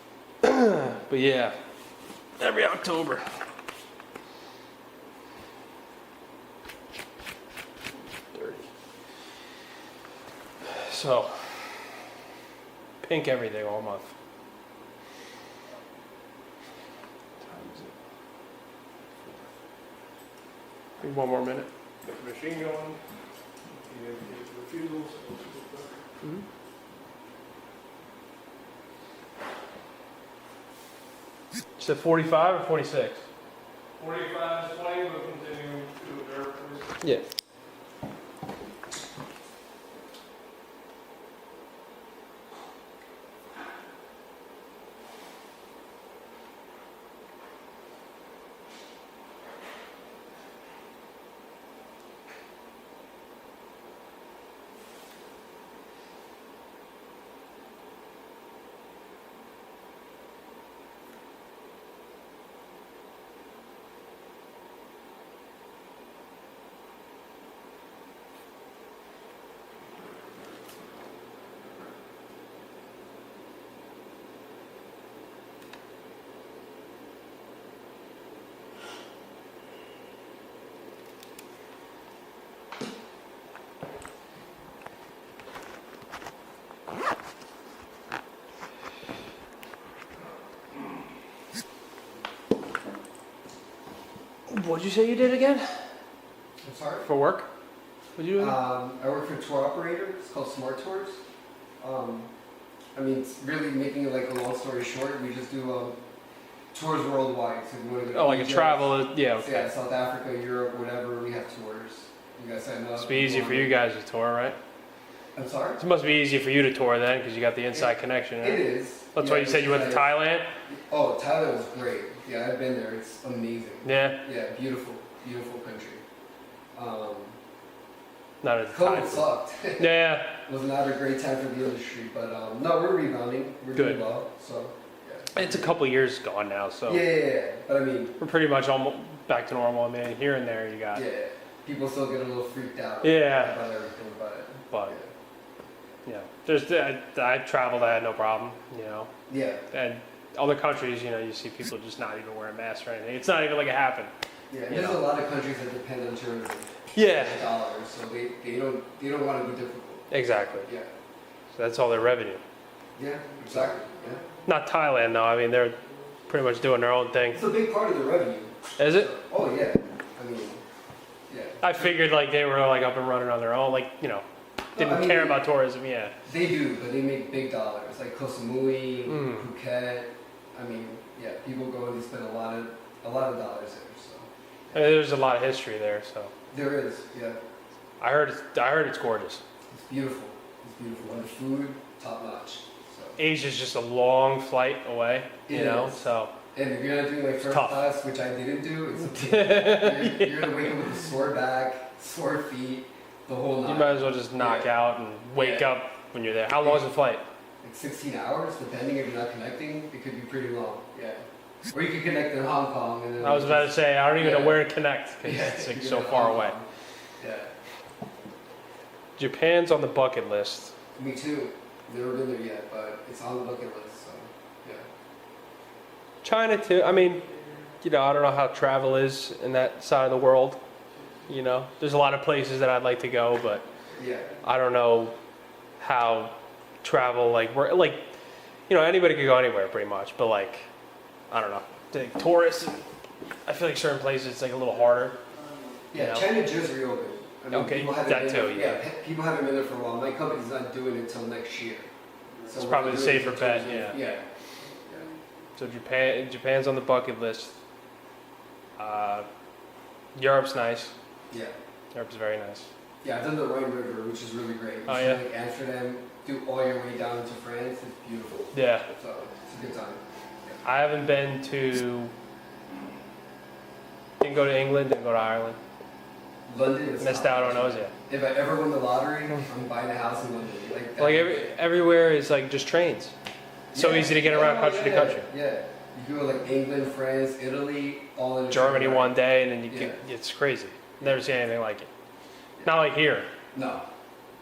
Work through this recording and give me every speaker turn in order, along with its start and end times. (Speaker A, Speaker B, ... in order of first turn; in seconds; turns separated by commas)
Speaker A: 0.4-1.5, Speaker A: 2.4-3.2, Speaker A: 8.3-8.6, Speaker A: 10.6-11.5, Speaker A: 13.0-14.1, Speaker A: 17.4-17.9, Speaker A: 21.0-21.7, Speaker B: 22.0-23.0, Speaker B: 23.8-26.0, Speaker A: 31.8-33.2, Speaker B: 34.0-36.9, Speaker A: 37.0-37.2, Speaker A: 94.5-95.7, Speaker C: 96.6-97.1, Speaker A: 97.0-97.5, Speaker A: 98.2-98.6, Speaker C: 98.3-101.2, Speaker C: 101.8-102.3, Speaker C: 102.9-106.0, Speaker C: 106.7-113.7, Speaker A: 108.1-109.7, Speaker A: 113.0-114.6, Speaker C: 115.3-115.8, Speaker A: 115.8-120.5, Speaker C: 117.7-120.2, Speaker C: 120.7-126.0, Speaker A: 123.8-124.2, Speaker C: 126.7-127.3, Speaker A: 128.4-130.3, Speaker C: 128.7-135.7, Speaker A: 133.7-134.0, Speaker A: 135.3-137.0, Speaker C: 136.8-138.2, Speaker A: 138.2-141.0, Speaker C: 140.9-145.1, Speaker A: 143.0-143.6, Speaker A: 146.1-149.1, Speaker C: 149.3-149.6, Speaker A: 149.7-154.1, Speaker C: 154.5-160.1, Speaker A: 154.7-155.1, Speaker A: 156.9-157.4, Speaker A: 160.1-160.7, Speaker C: 160.6-160.9, Speaker A: 161.5-162.4, Speaker C: 162.9-164.2, Speaker A: 164.4-167.4, Speaker C: 167.3-170.6, Speaker A: 168.8-169.1, Speaker C: 171.3-171.9, Speaker A: 171.6-176.1, Speaker C: 174.7-175.4, Speaker C: 176.2-184.3, Speaker A: 179.1-179.4, Speaker A: 184.7-186.3, Speaker C: 186.5-187.4, Speaker A: 188.0-189.4, Speaker C: 189.7-193.2, Speaker A: 193.2-196.3, Speaker C: 195.4-204.7, Speaker A: 197.4-197.8, Speaker A: 199.1-200.7, Speaker A: 203.6-207.2, Speaker C: 205.3-205.8, Speaker C: 207.6-214.6, Speaker A: 213.2-216.6, Speaker C: 215.2-216.7, Speaker C: 217.2-217.5, Speaker A: 219.2-220.7, Speaker C: 220.9-224.8, Speaker A: 226.2-227.2, Speaker B: 227.2-227.7, Speaker A: 227.8-230.6, Speaker B: 230.9-231.3, Speaker A: 231.3-233.6, Speaker C: 234.0-234.3, Speaker A: 234.4-235.1, Speaker A: 235.8-238.0, Speaker A: 238.7-240.7, Speaker A: 241.3-242.8, Speaker A: 243.4-245.2, Speaker B: 245.5-245.8, Speaker C: 245.9-251.9, Speaker A: 245.9-246.3, Speaker A: 247.5-248.8, Speaker C: 252.5-254.2, Speaker A: 252.6-254.0, Speaker A: 255.6-257.5, Speaker A: 258.8-259.3, Speaker A: 260.1-260.9, Speaker A: 261.9-262.7, Speaker C: 263.0-270.6, Speaker A: 264.9-265.2, Speaker A: 268.5-268.9, Speaker A: 270.6-272.1, Speaker A: 274.2-275.6, Speaker C: 276.5-281.4, Speaker A: 277.0-277.9, Speaker A: 281.0-283.1, Speaker C: 283.7-289.2, Speaker A: 283.7-285.3, Speaker A: 288.5-291.9, Speaker C: 289.7-290.0, Speaker A: 292.6-293.3, Speaker C: 293.5-293.9